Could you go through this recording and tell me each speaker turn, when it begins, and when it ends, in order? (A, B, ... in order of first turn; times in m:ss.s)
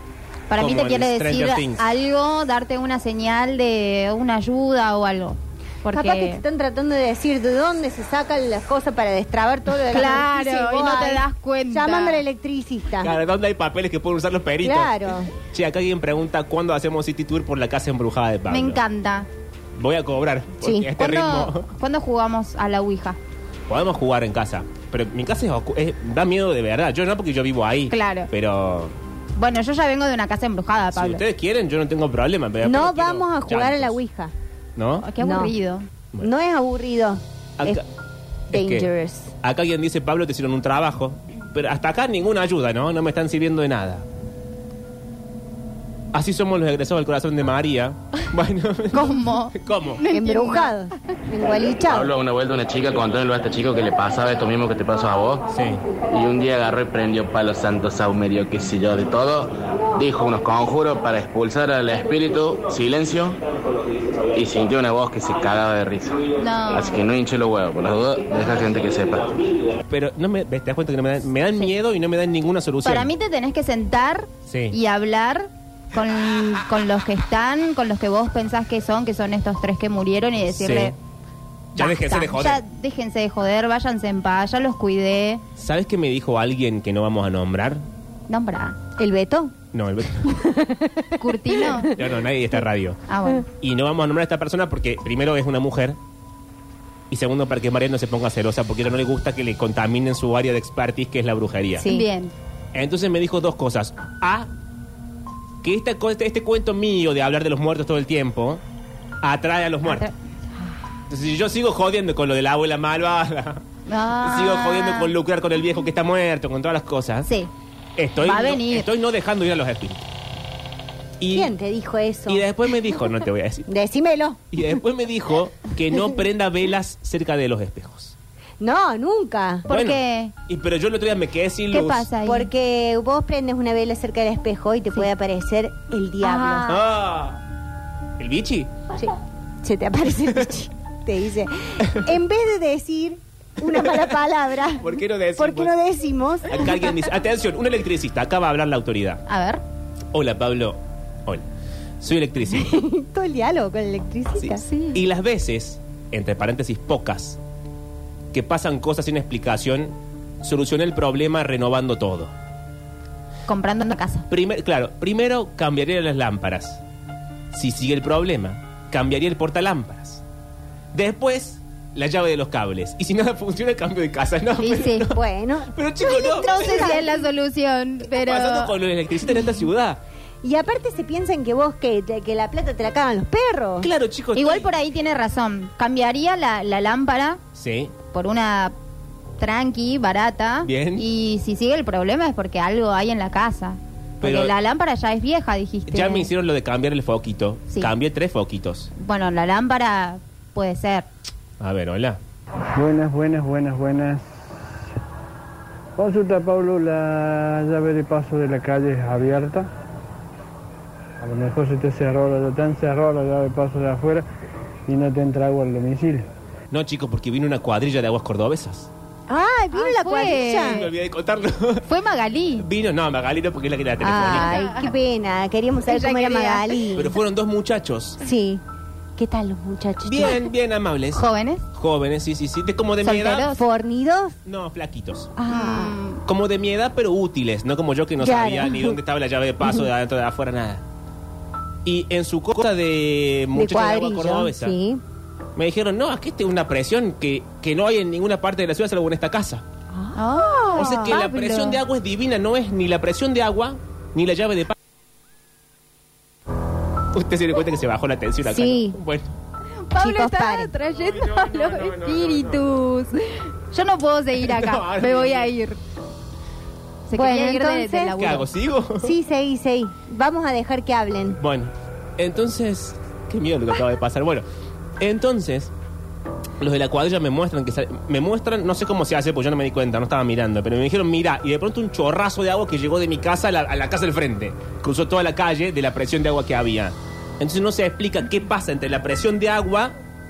0:00.5-0:06.4 A
0:00.6-0:01.9 B
0:05.9-0:13.1 C
0:09.9-0:12.2 A
0:13.0-0:18.8 B
0:14.6-0:15.3 C
0:18.5-0:19.3 A
0:19.8-0:21.7 B
0:20.6-0:20.9 C
0:21.0-0:23.2 A
0:23.7-0:28.9 B
0:27.9-0:28.3 A
0:29.4-0:31.2 A
0:30.9-0:34.0 B
0:32.6-0:34.3 C
0:34.8-0:35.1 B
0:35.0-0:35.9 A
0:35.2-0:35.5 C
0:36.2-0:37.8 C
0:38.5-0:39.3 C
0:38.5-0:38.9 B
0:39.4-0:44.0 B
0:46.1-0:50.0 B
0:48.9-0:50.7 A
0:50.1-0:52.1 C
0:51.9-0:55.5 D
0:55.5-0:55.8 B
0:56.0-1:03.4 D
1:04.3-1:09.4 D
1:06.4-1:07.0 A
1:09.9-1:13.1 B
1:12.8-1:21.0 A
1:14.5-1:14.8 B
1:20.5-1:20.9 B
1:21.8-1:22.6 B
1:21.8-1:25.4 A
1:25.6-1:27.8 B
1:28.3-1:28.8 A
1:29.0-1:29.5 C
1:29.7-1:30.4 B
1:30.3-1:31.9 C
1:31.2-1:31.9 A
1:31.9-1:33.0 B
1:33.1-1:33.5 A
1:33.6-1:36.0 B
1:37.1-1:41.9 B
1:41.8-1:42.1 C
1:41.9-1:42.3 A
1:42.7-1:44.5 B
1:45.6-1:48.6 B
1:49.2-1:50.1 B
1:49.8-1:50.1 A
1:51.1-1:53.6 B
1:53.9-1:55.1 A
1:54.2-1:57.3 B
1:57.3-1:57.5 A
1:58.0-2:00.1 B
1:58.2-1:58.8 A
2:01.2-2:01.5 B
2:01.3-2:02.5 C
2:02.3-2:03.7 B
2:03.7-2:04.4 C
2:04.5-2:08.2 B
2:08.6-2:09.7 C
2:09.7-2:10.3 A
2:09.7-2:12.1 B
2:11.7-2:12.5 A
2:12.2-2:16.7 C
2:16.2-2:16.8 A
2:16.7-2:17.4 B
2:18.2-2:18.7 B
2:18.9-2:24.9 C
2:23.8-2:24.0 B
2:24.7-2:25.7 B
2:25.4-2:26.7 C
2:26.5-2:29.2 B
2:29.3-2:29.6 A
2:30.1-2:31.4 B
2:32.0-2:32.7 B
2:32.5-2:34.6 C
2:34.6-2:35.0 A
2:34.9-2:37.4 B
2:38.3-2:42.3 B
2:43.5-2:44.3 A
2:44.3-2:46.8 B
2:47.5-2:50.2 B
2:50.9-2:55.2 B
2:54.6-2:55.1 A
2:55.1-2:57.2 C
2:55.7-2:57.0 B
2:56.4-2:58.7 A
2:58.1-3:00.0 B
3:00.4-3:03.9 C
3:03.8-3:04.7 B
3:04.4-3:07.4 A
3:07.6-3:07.9 B
3:08.1-3:08.8 A
3:09.4-3:16.3 A
3:10.6-3:11.1 B
3:14.2-3:14.5 B
3:15.9-3:18.9 B
3:19.0-3:21.1 A
3:21.6-3:22.2 B
3:22.8-3:24.6 E
3:26.0-3:29.7 E
3:31.2-3:34.3 E
3:34.9-3:36.3 E
3:36.7-3:38.9 B
3:39.3-3:40.9 C
3:39.7-3:40.9 A
3:40.7-3:41.9 B
3:41.9-3:42.7 A
3:42.6-3:44.5 B
3:44.0-3:47.1 C
3:44.3-3:44.9 A
3:45.9-3:46.8 A
3:47.0-3:48.2 B
3:48.2-3:48.6 C
3:49.2-3:50.4 C
3:50.0-3:53.5 B
3:51.1-3:51.6 A
3:53.0-3:53.6 A
3:53.5-3:54.4 C
3:54.5-3:55.3 B
3:55.4-3:56.0 C
3:55.5-3:56.2 A
3:56.3-4:00.8 B
3:58.2-3:59.0 C
4:01.8-4:04.8 B
4:03.6-4:05.0 C
4:05.6-4:09.6 B
4:09.9-4:11.1 C
4:10.2-4:11.8 A
4:10.8-4:14.7 B
4:17.1-4:19.3 B
4:18.4-4:19.0 C
4:19.9-4:25.8 A
4:20.0-4:20.7 C
4:21.0-4:22.5 B
4:24.4-4:25.5 B
4:27.1-4:28.5 A
4:27.1-4:28.2 C
4:28.2-4:29.1 B
4:29.0-4:31.4 C
4:31.4-4:34.4 B
4:35.0-4:35.7 B
4:36.6-4:50.0 B